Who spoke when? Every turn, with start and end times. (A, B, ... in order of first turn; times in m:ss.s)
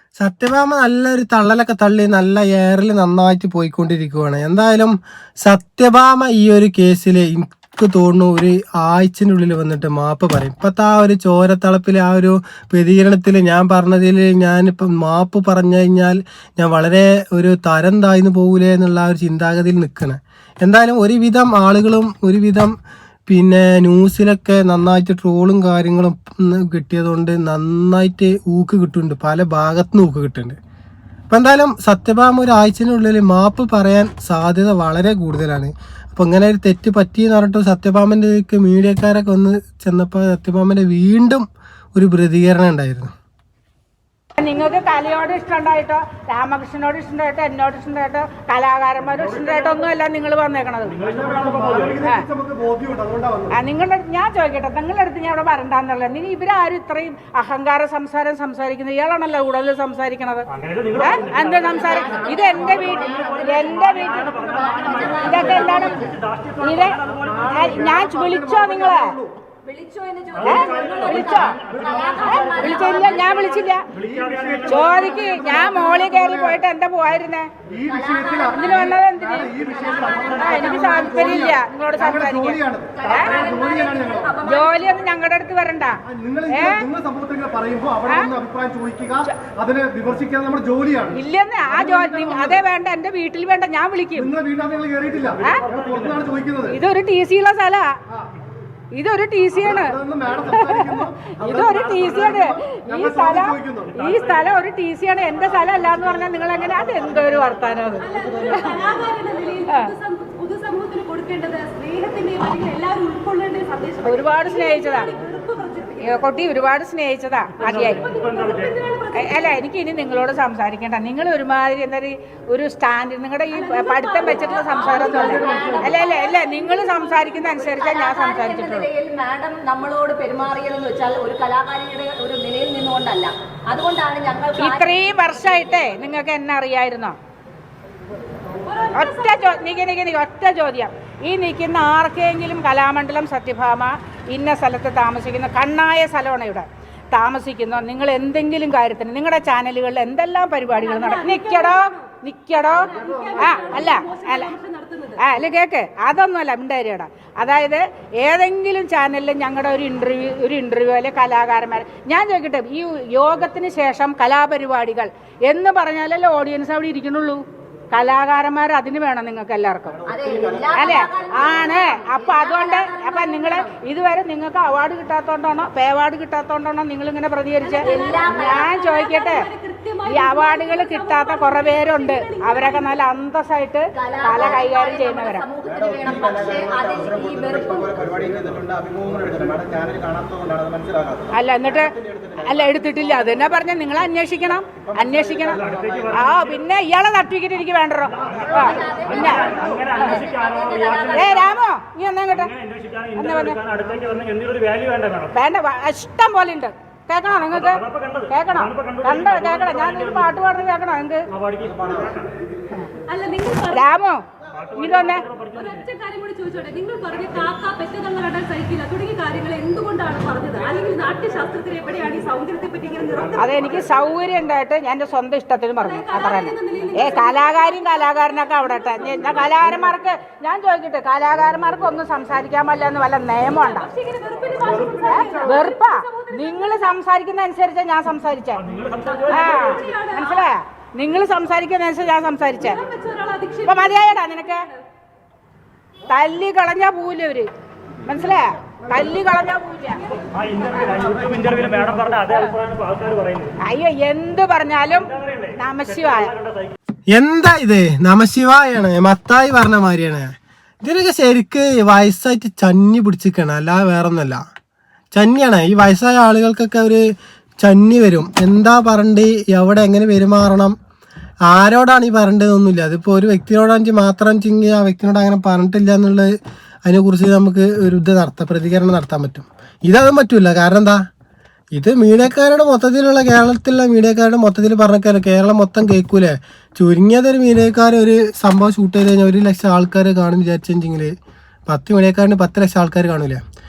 0:00.2-0:22.7 A
0:23.3-0:30.6 A
0:31.3-0:41.4 A
0:42.0-0:43.1 A
0:44.4-0:51.0 B
0:51.1-0:53.5 C
0:53.5-1:00.4 B
1:01.0-1:04.3 B
1:01.0-1:01.4 C
1:01.5-1:06.2 D
1:05.1-1:07.0 B
1:07.3-1:09.3 C
1:07.5-1:09.1 B
1:09.6-1:13.6 D
1:10.4-1:11.6 B
1:12.2-1:13.8 B
1:14.0-1:16.6 C
1:14.6-1:17.5 B
1:17.8-1:18.6 C
1:17.8-1:21.5 D
1:18.5-1:19.5 B
1:19.3-1:24.3 C
1:20.3-1:23.4 B
1:22.9-1:25.0 D
1:24.4-1:26.0 B
1:26.1-1:32.6 C
1:26.5-1:26.8 B
1:31.1-1:34.3 B
1:34.2-1:36.8 C
1:35.4-1:35.7 B
1:36.7-1:37.9 B
1:38.9-1:40.0 B
1:39.5-1:44.0 C
1:41.4-1:48.0 B
1:48.0-1:56.2 E
1:54.0-1:55.1 B
1:56.0-1:58.0 B
1:57.6-1:59.5 E
1:59.2-2:08.9 B
2:03.5-2:06.3 E
2:04.8-2:14.9 D
2:14.6-2:17.1 B
2:18.6-2:19.6 E
2:18.9-2:34.5 B
2:30.8-2:32.1 E
2:32.7-2:35.2 E
2:35.2-2:50.0 B
2:50.1-2:53.7 D
2:50.7-2:59.4 B
2:57.6-3:03.0 E
2:57.8-2:58.7 D
3:00.1-3:05.4 B
3:03.9-3:08.7 D
3:11.3-3:19.5 B
3:18.4-3:21.5 D
3:21.1-3:22.5 B
3:23.1-3:23.6 B
3:25.3-3:31.2 B
3:33.1-3:33.8 E
3:33.7-3:35.2 B
3:35.5-3:43.7 E
3:43.4-3:53.9 B
3:45.8-3:49.3 E
3:53.5-3:56.9 E
3:55.1-3:58.6 B
3:59.0-4:00.4 E
3:59.3-4:02.8 B
4:02.8-4:04.8 E
4:03.6-4:04.6 B
4:06.1-4:07.5 B
4:08.1-4:10.0 B
4:10.4-4:11.3 E
4:12.0-4:12.4 B
4:13.6-4:16.3 B
4:17.1-4:24.4 A
4:25.1-4:27.1 A
4:27.6-4:30.7 A
4:31.5-4:36.3 A
4:36.8-4:41.0 A
4:41.7-4:51.1 A
4:51.7-4:53.4 A